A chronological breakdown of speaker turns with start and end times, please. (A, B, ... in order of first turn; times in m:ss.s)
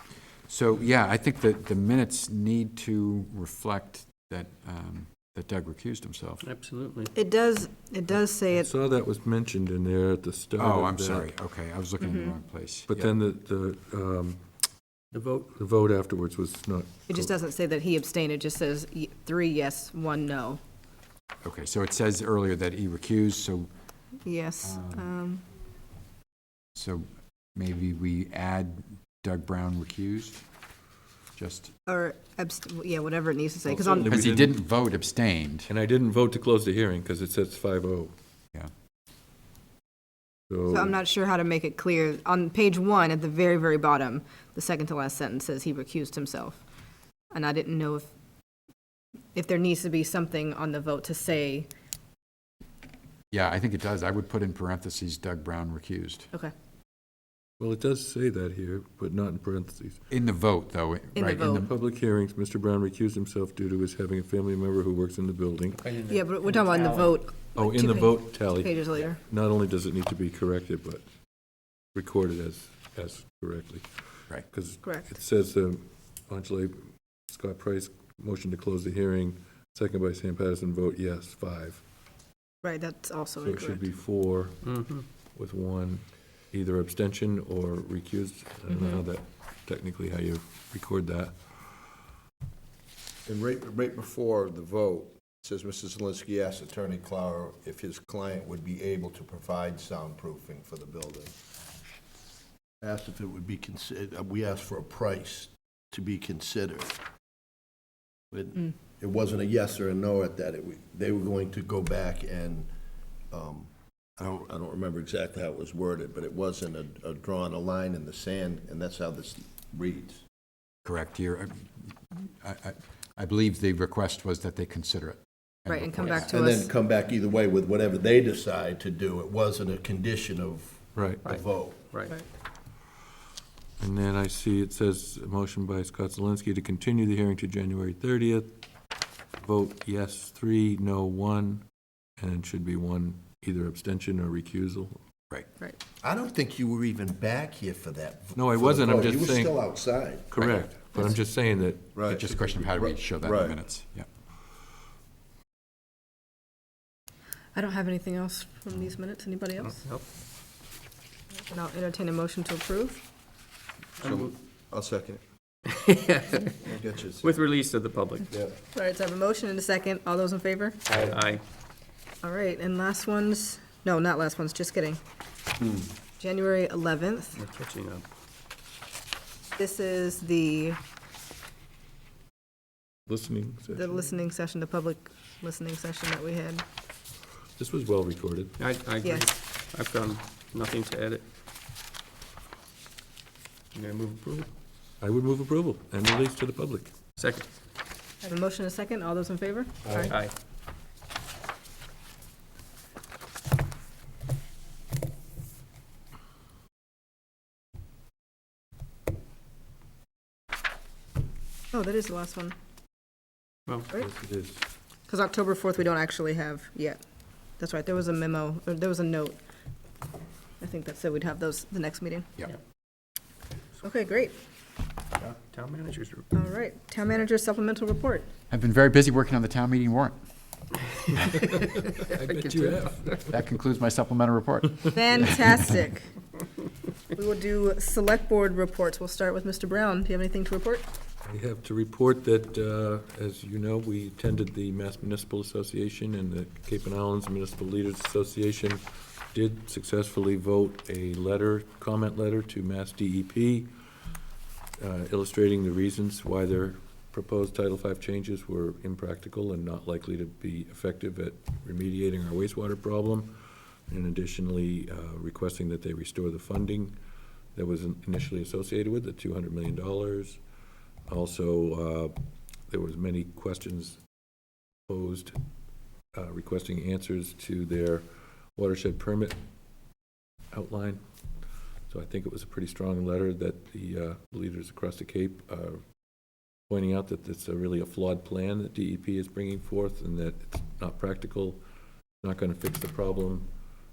0:00.5-0:06.4 A
0:06.4-0:07.1 B
0:07.1-0:08.7 C
0:08.5-0:11.3 D
0:10.6-0:13.1 A
0:12.0-0:12.3 C
0:12.9-0:14.4 D
0:15.1-0:15.5 B
0:15.5-0:17.3 D
0:17.1-0:20.6 C
0:21.4-0:23.7 A
0:24.2-0:25.4 C
0:24.6-0:25.1 A
0:26.7-0:30.5 A
0:31.3-0:31.7 A
0:31.9-0:34.1 C
0:33.6-0:34.6 D
0:34.0-0:35.7 A
0:35.7-0:38.1 D
0:40.5-0:41.0 D
0:40.7-0:46.6 C
0:47.3-0:48.1 C
0:49.3-0:51.7 C
0:53.3-0:56.3 A
0:57.6-1:00.0 D
1:00.1-1:01.7 A
1:01.1-1:01.7 C
1:01.4-1:05.8 D
1:05.8-1:07.1 B
1:06.1-1:09.2 C
1:07.6-1:11.0 D
1:11.9-1:13.9 D
1:14.4-1:21.8 D
1:14.8-1:15.1 C
1:22.6-1:23.8 C
1:23.4-1:31.4 D
1:24.6-1:25.0 B
1:28.7-1:29.0 C
1:33.2-1:41.3 E
1:42.8-1:46.9 E
1:48.3-1:52.7 E
1:53.3-2:00.2 E
2:00.8-2:06.3 A
2:05.7-2:06.7 C
2:06.2-2:11.9 E
2:10.9-2:11.2 D
2:11.2-2:12.1 B
2:13.8-2:18.5 D
2:19.4-2:21.6 D
2:22.2-2:25.0 D
2:26.0-2:30.7 E
2:28.3-2:29.6 D
2:30.3-2:32.0 D
2:31.9-2:33.6 E
2:32.0-2:34.1 A
2:37.5-2:39.8 C
2:39.8-2:40.0 B
2:41.5-2:43.0 C
2:44.0-2:45.2 E
2:44.0-2:44.3 B
2:45.6-2:46.6 B
2:46.6-2:47.4 E
2:47.2-2:48.3 B
2:48.3-2:48.6 E
2:48.7-2:50.9 C
2:50.9-2:51.4 B
2:52.2-2:55.0 C
2:56.2-2:57.4 C
2:57.4-2:58.0 B
2:59.6-3:00.8 C
3:03.1-3:04.1 D
3:03.7-3:06.6 C
3:07.6-3:08.6 D
3:08.6-3:11.2 B
3:09.0-3:09.3 C
3:13.7-3:14.5 B
3:15.0-3:16.9 D
3:17.2-3:17.4 B
3:18.2-3:20.1 C
3:20.0-3:20.3 B
3:31.7-3:32.5 C
3:34.1-3:34.6 D
3:35.1-3:37.0 C
3:37.6-3:39.4 C
3:40.6-3:42.3 C
3:43.8-3:44.3 C
3:45.2-3:46.3 B
3:46.3-3:48.3 C
3:48.5-3:50.2 A
3:51.5-3:53.2 B
3:51.6-3:53.3 D
3:53.3-3:55.5 A
3:54.9-3:56.1 C
3:57.1-4:00.8 C
4:01.2-4:13.7 D
4:14.8-4:27.0 D
4:27.5-4:30.4 D
4:31.1-4:32.2 D
4:32.7-4:34.0 D
4:34.9-4:35.4 D
4:36.1-4:39.4 D
4:40.5-4:41.0 D
4:41.9-4:45.8 D
4:46.7-4:51.6 D
4:52.2-4:53.5 D